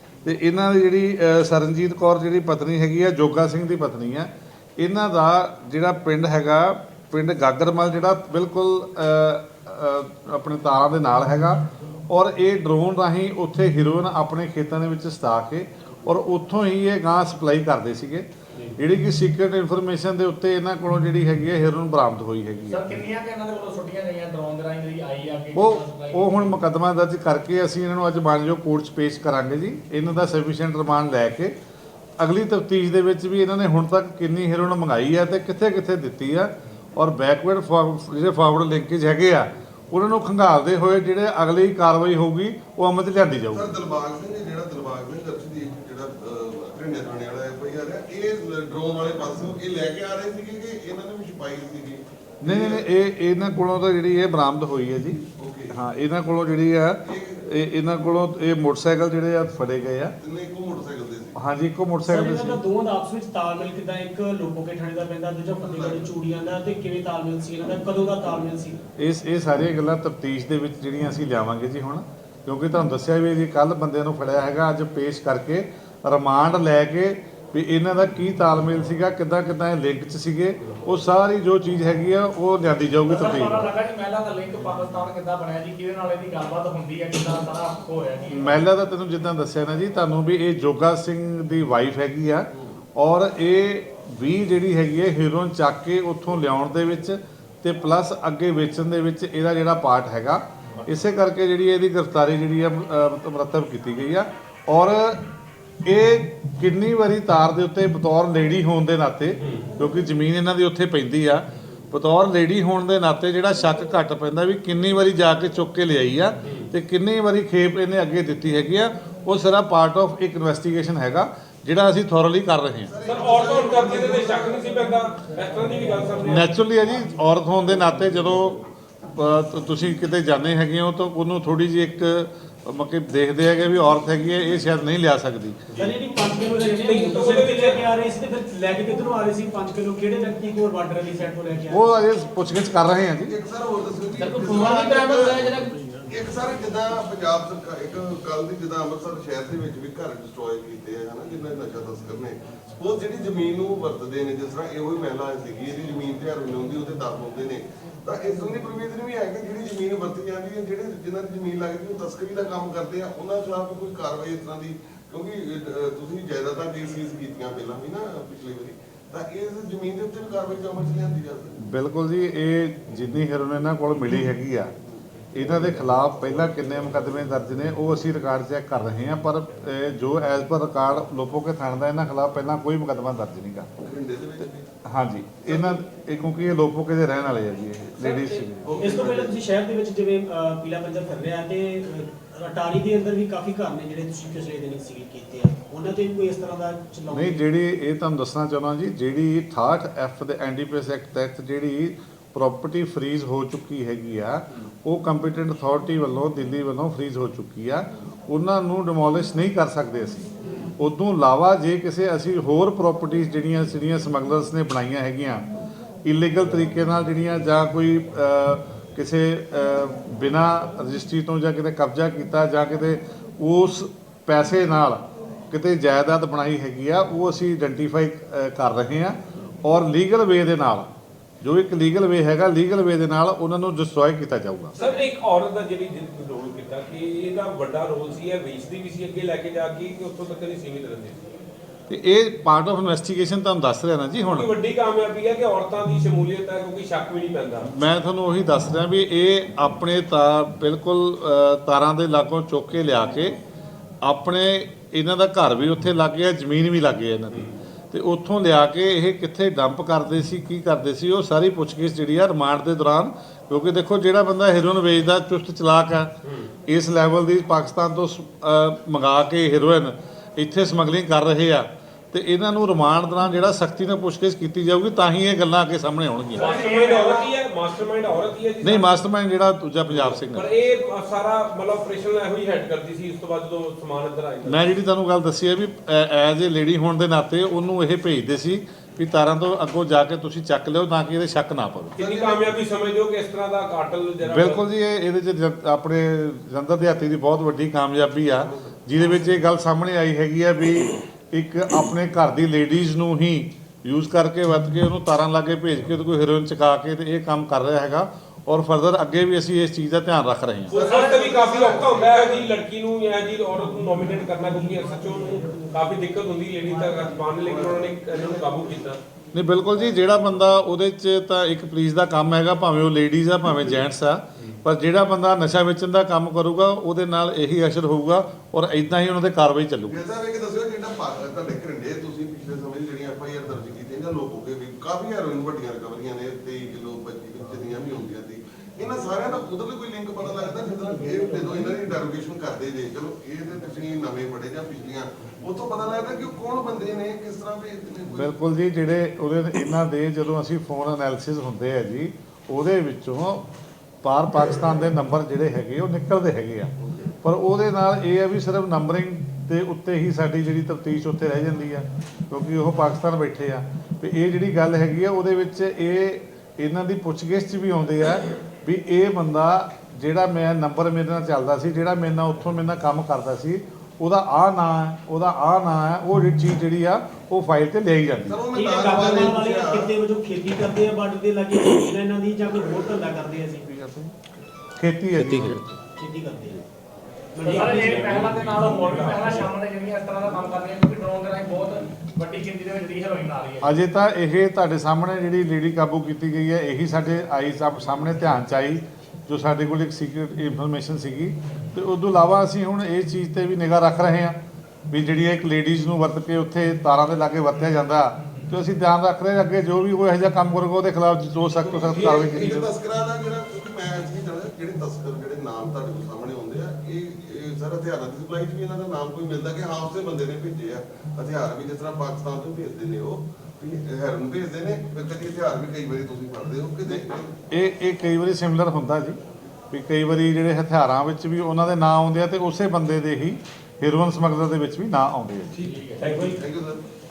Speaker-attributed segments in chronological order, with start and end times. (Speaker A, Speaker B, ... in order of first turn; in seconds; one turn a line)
Speaker A: 0.2-23.0
Speaker B: 22.7-26.6
Speaker A: 25.5-31.6
Speaker A: 32.2-43.8
Speaker C: 43.5-52.9
Speaker A: 52.4-60.1
Speaker C: 55.4-55.8
Speaker C: 57.0-57.5
Speaker C: 60.2-61.4
Speaker A: 61.4-62.6
Speaker D: 62.1-68.8
Speaker C: 65.6-66.1
Speaker A: 69.0-83.7
Speaker B: 83.1-88.6
Speaker A: 88.3-105.2
Speaker A: 105.8-122.9
Speaker E: 109.4-109.7
Speaker E: 116.5-116.7
Speaker C: 122.9-124.6
Speaker E: 123.0-126.5
Speaker A: 126.2-135.6
Speaker D: 135.8-141.9
Speaker E: 136.6-137.8
Speaker A: 141.7-143.3
Speaker C: 143.2-171.6
Speaker B: 144.2-145.7
Speaker A: 171.6-174.7
Speaker A: 175.3-183.7
Speaker C: 183.8-184.7
Speaker A: 184.8-188.7
Speaker C: 185.4-185.8
Speaker E: 188.0-188.5
Speaker C: 188.6-189.4
Speaker D: 188.8-197.4
Speaker A: 197.1-210.3
Speaker A: 210.8-215.5
Speaker A: 216.0-230.9
Speaker A: 231.4-234.7
Speaker E: 234.8-241.3
Speaker A: 241.9-244.5
Speaker E: 244.3-247.7
Speaker A: 247.7-253.4
Speaker A: 254.0-266.1
Speaker E: 266.2-266.5
Speaker A: 266.7-276.5
Speaker E: 276.4-279.1
Speaker B: 276.4-277.3
Speaker A: 278.6-280.5
Speaker E: 279.9-284.7
Speaker A: 284.5-291.9
Speaker E: 292.0-294.6
Speaker C: 292.0-292.5
Speaker A: 294.2-310.8
Speaker C: 298.4-299.0
Speaker C: 310.7-312.5
Speaker E: 310.7-319.0
Speaker D: 314.0-315.9
Speaker D: 316.6-317.1
Speaker C: 317.4-318.8
Speaker A: 319.3-330.0
Speaker E: 324.4-324.6
Speaker C: 329.9-348.3
Speaker D: 341.1-341.7
Speaker A: 348.1-353.5
Speaker A: 354.0-378.4
Speaker C: 356.9-357.1
Speaker C: 378.3-379.9
Speaker D: 378.5-383.7
Speaker A: 383.7-384.1
Speaker A: 384.8-385.7
Speaker D: 386.0-386.6
Speaker D: 387.4-388.2
Speaker B: 387.4-393.8
Speaker E: 387.5-389.5
Speaker A: 393.6-404.4
Speaker A: 404.9-412.7
Speaker B: 408.2-408.5
Speaker C: 411.6-427.3
Speaker E: 411.9-412.6
Speaker A: 426.9-429.2
Speaker A: 429.7-435.5
Speaker B: 435.6-436.1
Speaker E: 435.6-436.4
Speaker D: 436.0-436.4
Speaker C: 436.1-436.8